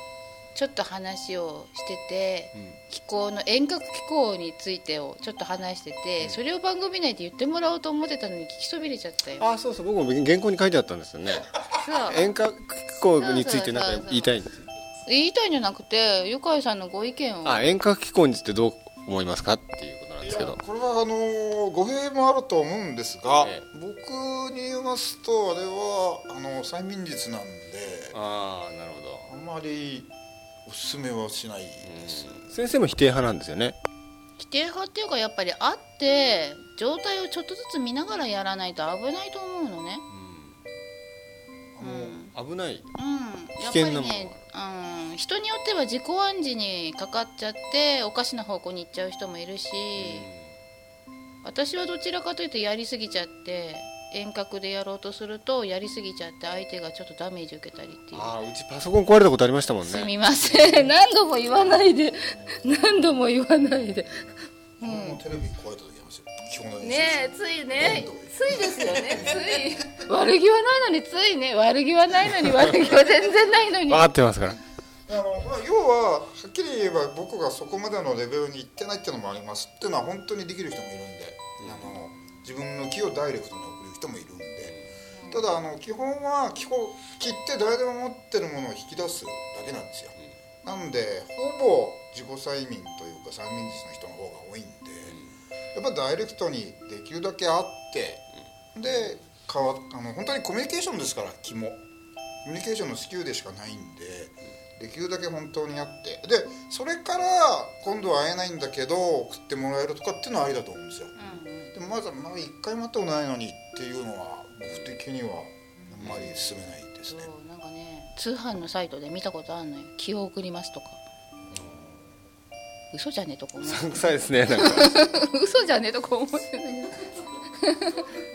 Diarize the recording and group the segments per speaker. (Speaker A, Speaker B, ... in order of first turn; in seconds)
Speaker A: 0.5-9.4, 11.7-12.3, 13.2-14.4, 15.1-17.7, 34.4-40.0, 41.8-42.3, 42.9-50.3, 51.4-58.4, 59.8-65.2, 66.8-74.1, 85.1-85.4, 111.2-111.7, 115.8-116.2, 117.1-121.0, 122.9-128.1
Speaker B: 9.4-14.7, 17.4-20.6, 23.4-23.6, 28.1-29.3, 31.8-33.8, 40.1-40.6, 42.3-42.9, 43.6-44.4, 50.0-50.5, 58.1-60.1, 73.8-74.6, 81.6-82.0, 116.0-116.4, 121.6-121.8, 123.6-125.2
Speaker C: 20.2-28.2, 29.2-30.1, 30.6-32.5, 41.7-42.2, 64.8-70.0, 75.1-84.8, 85.3-95.2, 95.7-101.8, 102.4-117.3, 121.5-121.8